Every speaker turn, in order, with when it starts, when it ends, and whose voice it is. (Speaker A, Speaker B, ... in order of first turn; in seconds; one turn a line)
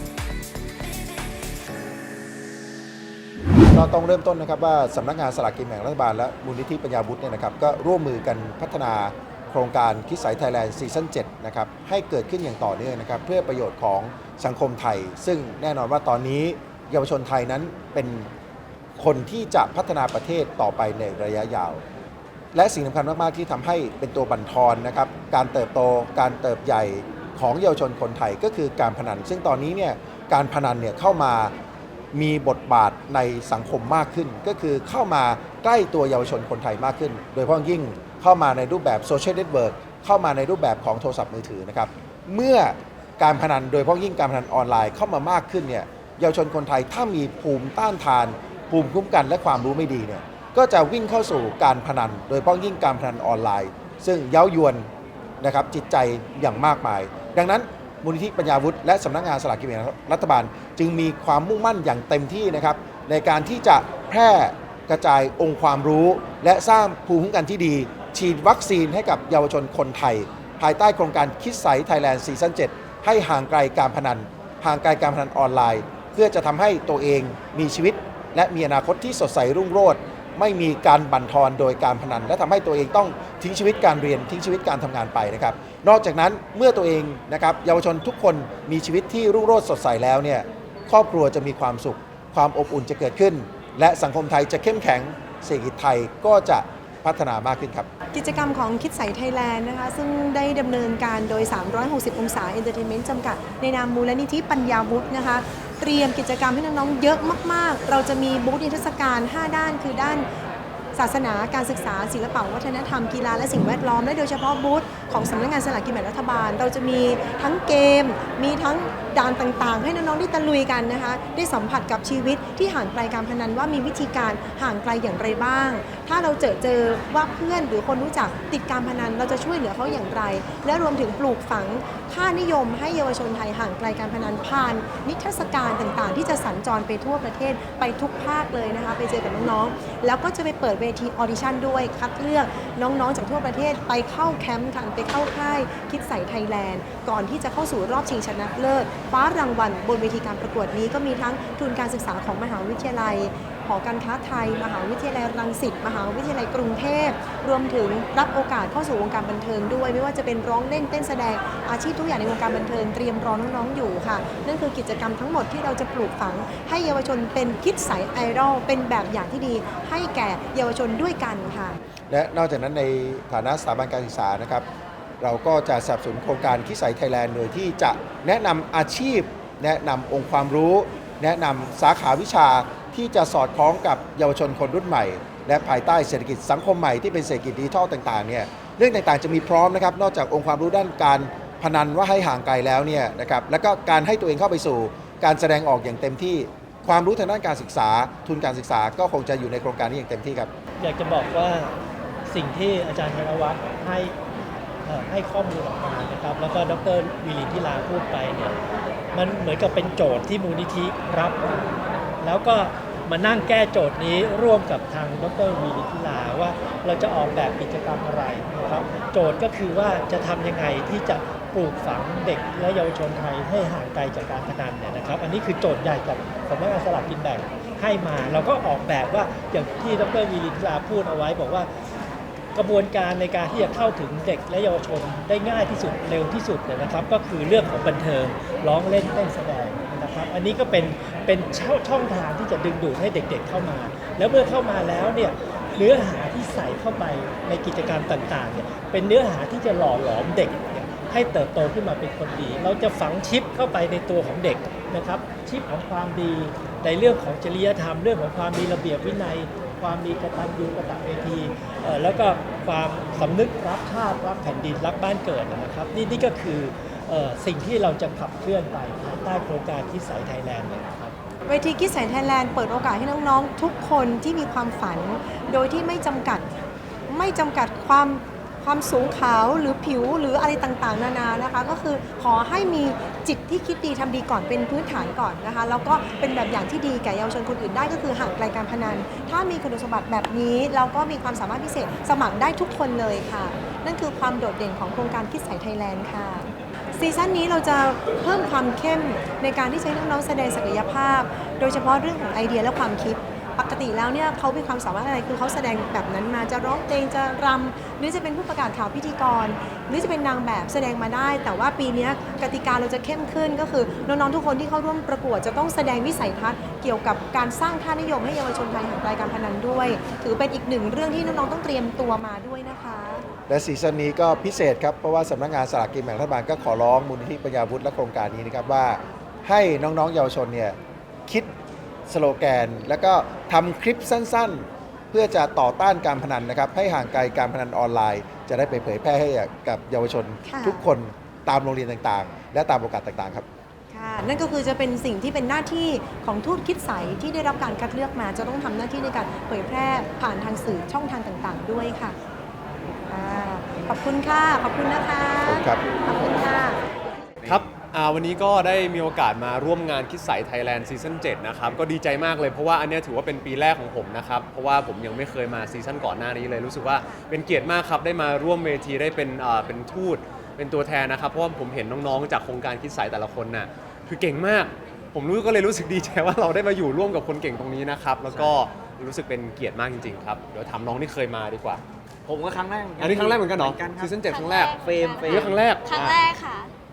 Speaker A: 3.7-18.3
Speaker A: 19.0-21.8
Speaker A: 22.6-31.5
Speaker A: 32.1-54.9
Speaker A: 55.4-97.9
Speaker B: 98.1-110.3
Speaker B: 110.9-171.8
Speaker A: 172.1-174.7
Speaker A: 175.2-200.5
Speaker C: 200.8-201.7
Speaker C: 202.3-204.2
Speaker C: 204.8-208.6
Speaker C: 209.1-231.7
Speaker C: 232.5-271.2
Speaker B: 271.5-276.5
Speaker B: 277.1-323.3
Speaker A: 323.5-331.5
Speaker A: 332.1-343.5
Speaker B: 340.5-340.9
Speaker B: 343.9-352.2
Speaker B: 353.1-356.9
Speaker A: 355.4-355.8
Speaker D: 357.5-381.8
Speaker E: 378.3-378.6
Speaker E: 382.2-384.3
Speaker D: 383.0-384.7
Speaker F: 384.2-386.7
Speaker E: 384.8-385.7
Speaker D: 385.3-386.0